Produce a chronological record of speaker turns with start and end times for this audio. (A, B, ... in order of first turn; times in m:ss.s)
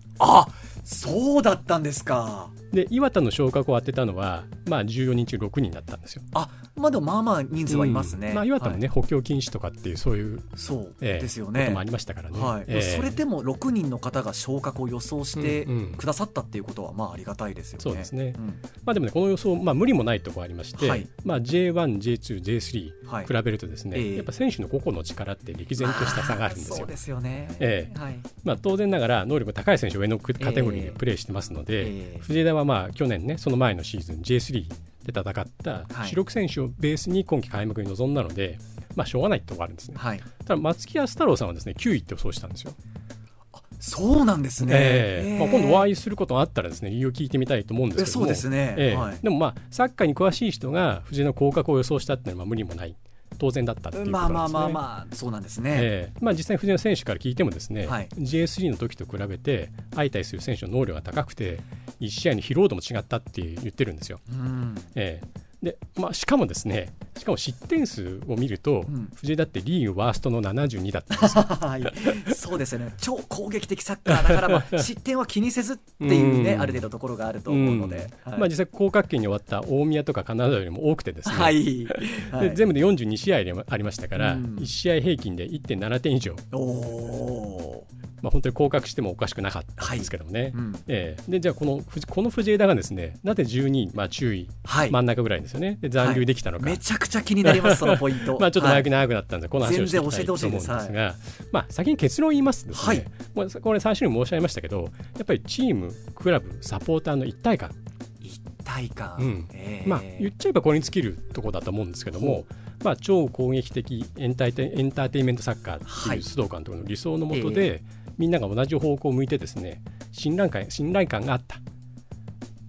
0:00.2-0:02.5 A
0:02.7-0:06.2 B
0:06.3-0:08.8 A
0:07.7-0:10.4 B
0:10.6-0:18.6 A
0:11.0-0:13.2 B
0:15.4-0:16.0 B
0:17.8-0:27.0 B
0:20.8-0:21.1 A
0:23.0-0:23.3 A
0:23.9-0:24.3 A
0:25.8-0:28.4 A
0:27.6-0:42.8 B
0:30.4-0:31.0 A
0:31.8-0:32.3 A
0:35.9-0:36.2 A
0:40.0-0:40.3 A
0:43.5-0:45.9 A
0:44.6-0:54.8 B
0:48.0-0:49.2 A
0:53.9-0:55.9 A
0:55.7-1:04.2 B
0:57.8-0:58.1 A
1:04.3-1:04.9 A
1:04.9-1:12.3 B
1:11.1-1:18.5 A
1:14.1-1:14.9 B
1:16.0-1:16.9 B
1:17.5-1:26.4 B
1:21.2-1:22.6 A
1:24.1-1:24.7 A
1:26.5-1:27.8 A
1:28.2-1:36.8 B
1:29.8-1:30.8 A
1:34.6-1:35.0 A
1:36.0-1:38.9 A
1:37.4-1:47.7 B
1:39.6-1:41.0 A
1:42.7-1:43.1 A
1:48.2-1:50.3 A
1:49.2-2:01.6 B
1:52.1-1:52.4 A
1:55.8-1:56.2 A
1:57.3-1:57.7 A